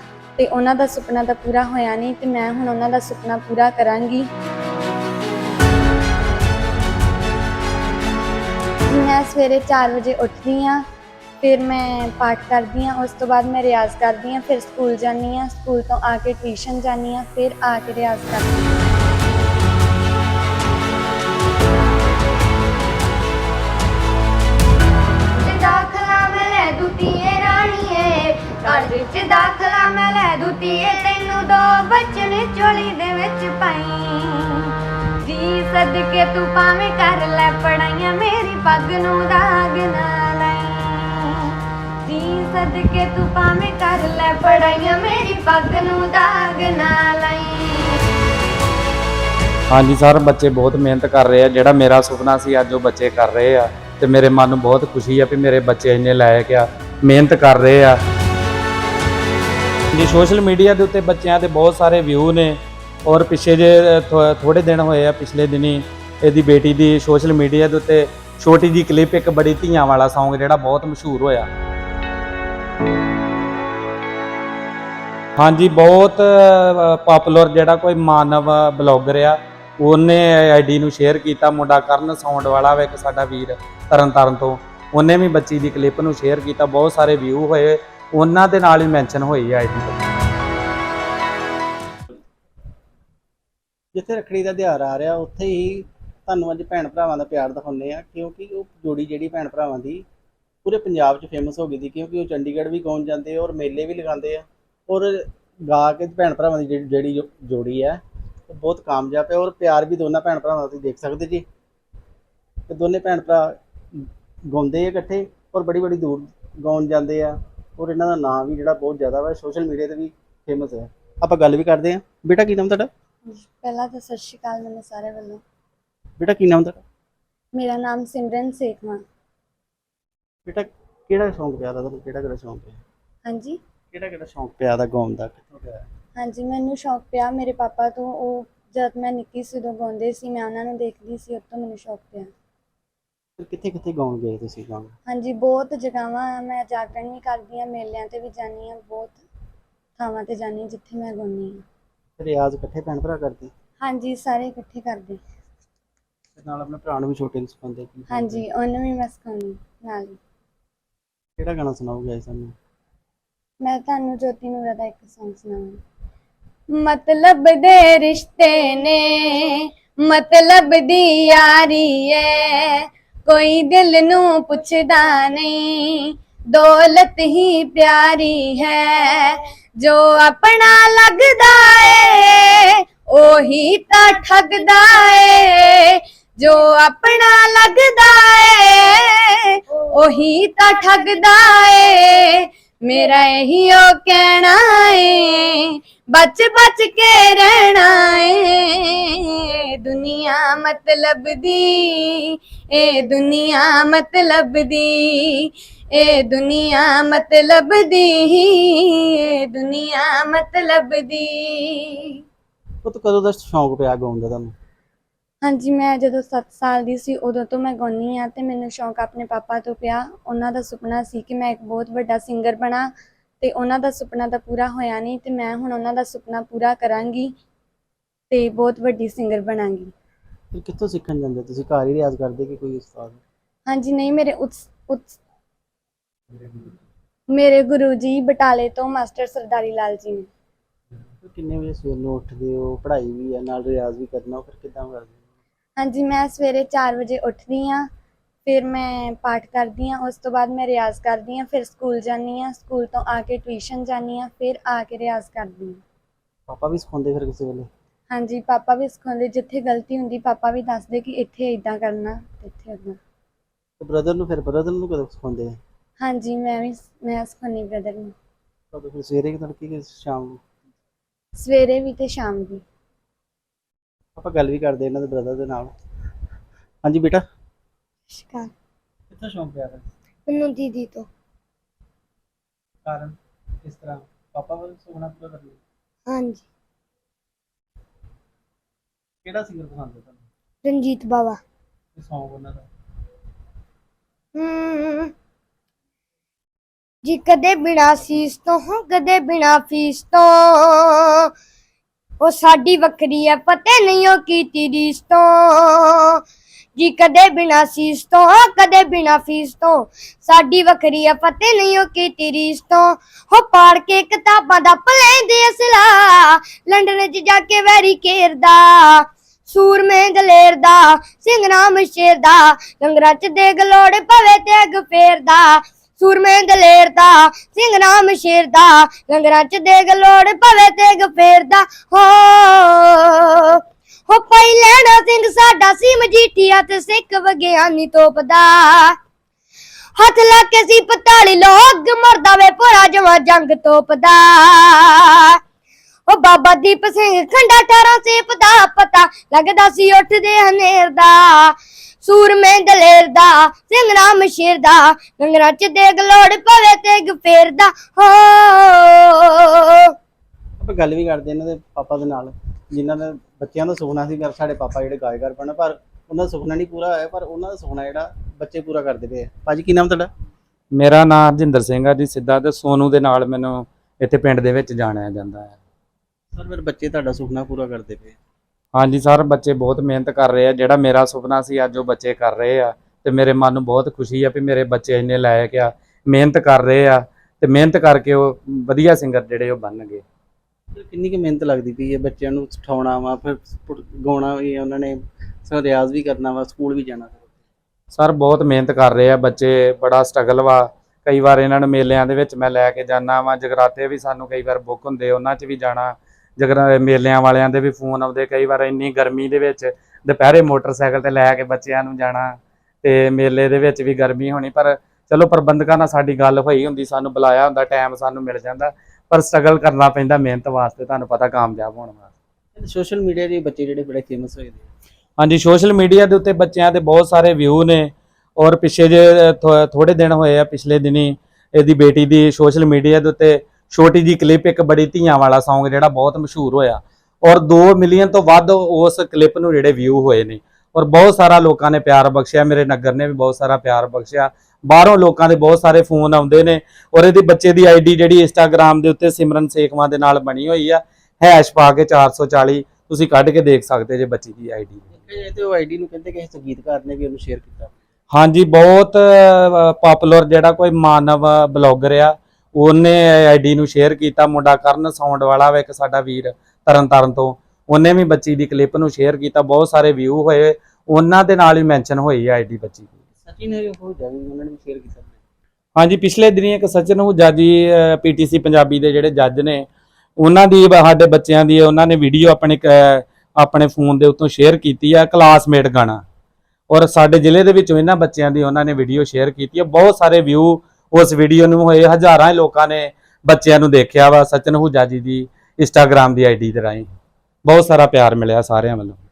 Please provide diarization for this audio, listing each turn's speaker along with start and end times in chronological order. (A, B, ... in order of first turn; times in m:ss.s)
0:00.4-0:04.3 A
0:08.9-0:10.8 A
0:11.4-0:18.6 A
0:25.3-0:31.5 B
0:28.7-0:29.3 A
0:31.4-0:48.0 A
0:49.7-0:58.0 C
0:59.9-1:11.5 C
1:15.4-1:30.1 C
1:33.9-1:40.0 D
1:40.6-1:51.4 D
1:52.7-2:02.9 D
2:03.3-2:05.4 A
2:06.2-2:06.8 D
2:07.5-2:09.0 A
2:10.5-2:12.8 D
2:13.3-2:13.6 A
2:13.9-2:15.8 D
2:16.2-2:22.3 A
2:23.4-2:24.9 D
2:25.1-2:29.2 A
2:30.0-2:31.6 A
2:32.2-2:33.5 D
2:33.8-2:35.2 A
2:36.4-2:38.5 D
2:38.1-2:40.2 A
2:41.4-2:42.5 D
2:43.6-2:45.8 A
2:46.7-3:32.2 A
3:32.8-3:34.6 D
3:35.4-3:47.4 A
3:48.3-3:49.9 A
3:50.5-3:53.2 D
3:53.7-3:55.2 A
3:57.3-4:00.3 A
4:01.2-4:05.2 D
4:05.8-4:07.9 A
4:08.5-4:15.8 A
4:16.5-4:17.7 D
4:18.1-4:23.0 A
4:23.8-4:25.6 D
4:26.0-4:28.1 A
4:28.7-4:30.4 D
4:31.4-4:32.6 A
4:34.2-4:35.7 D
4:36.8-4:37.2 D
4:38.1-4:38.5 B
4:39.1-4:39.9 D
4:40.3-4:41.1 B
4:42.8-4:45.6 D
4:46.1-4:46.4 B
4:49.2-4:50.3 D
4:50.6-4:51.4 B
4:52.0-4:52.7 D
4:54.4-4:55.1 B
4:57.0-5:01.3 B
5:02.2-5:06.2 B
5:06.8-5:39.0 B
5:40.0-5:45.4 B
5:46.1-5:59.9 B
6:00.6-6:10.1 D
6:10.7-6:15.6 C
6:16.3-6:18.2 D
6:18.8-6:30.0 C
6:30.7-6:37.3 D
6:37.9-7:02.1 C
7:02.6-7:04.7 D
7:05.2-7:34.9 C
7:34.9-7:37.8 D
7:38.1-7:53.0 C
7:53.2-7:55.2 D
7:55.8-7:59.7 C
8:00.2-8:06.0 C
8:06.7-8:16.9 C
8:17.4-8:19.0 C